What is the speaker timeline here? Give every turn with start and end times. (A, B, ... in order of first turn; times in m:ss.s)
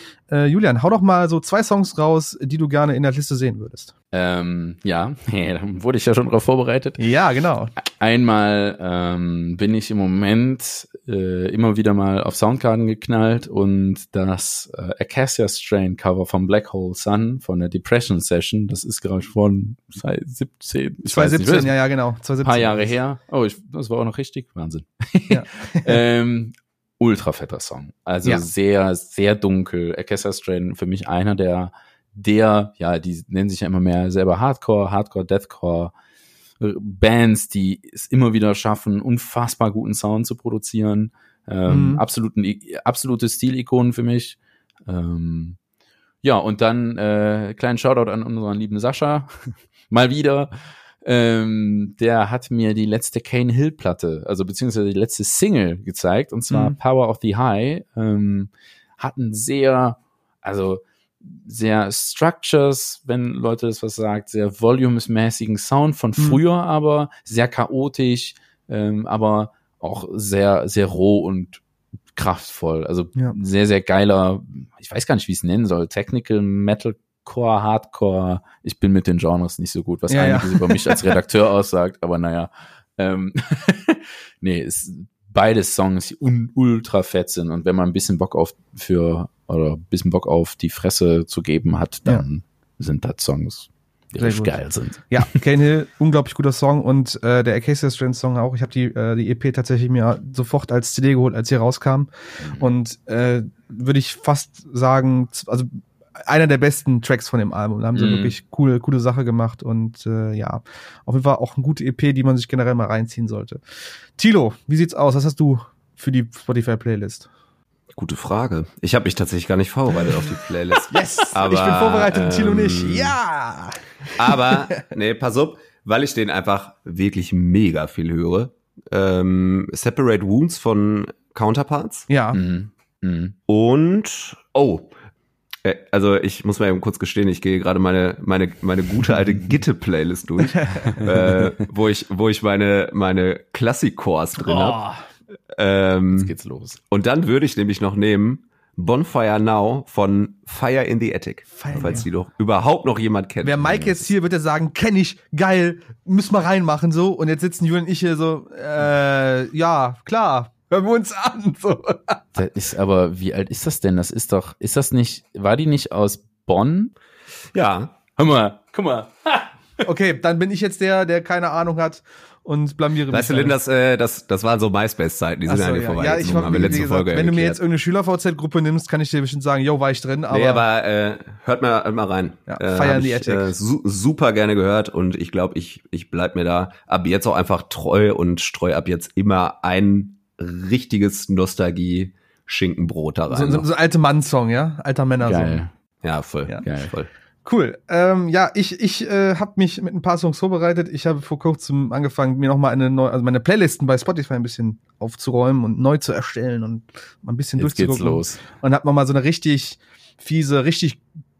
0:00.3-0:03.9 A
0:04.1-0:07.0 B
0:07.0-0:07.7 A
0:07.8-0:21.7 B
0:21.0-0:22.9 A
0:22.4-0:35.9 B
0:25.3-0:26.0 A
0:36.6-0:45.6 B
0:41.7-0:42.0 A
0:46.2-1:11.6 B
0:56.5-0:56.8 A
1:12.2-1:35.4 B
1:20.1-1:21.1 A
1:34.2-1:53.6 A
1:42.4-1:42.7 B
1:47.9-1:48.3 B
1:54.2-1:57.3 A
1:57.9-2:03.2 C
2:00.8-2:04.8 A
2:04.2-2:12.1 C
2:12.1-2:12.4 A
2:12.3-2:13.3 B
2:13.5-2:14.9 C
2:15.6-2:24.8 C
2:20.5-2:21.0 A
2:24.4-2:25.0 A
2:25.5-2:26.3 C
2:26.1-2:26.8 B
2:26.9-2:34.0 C
2:31.6-2:32.0 A
2:33.4-2:42.2 A
2:42.4-2:46.9 B
2:47.5-2:47.9 C
2:48.2-2:49.5 B
2:49.8-2:53.6 A
2:53.1-2:57.6 C
2:55.5-3:00.6 A
2:56.2-2:56.8 B
3:00.3-3:13.6 C
3:02.5-3:03.5 A
3:13.3-3:15.6 A
3:15.2-3:15.7 B
3:16.0-3:17.1 C
3:16.6-3:16.9 B
3:17.4-3:31.0 A
3:27.6-3:28.4 B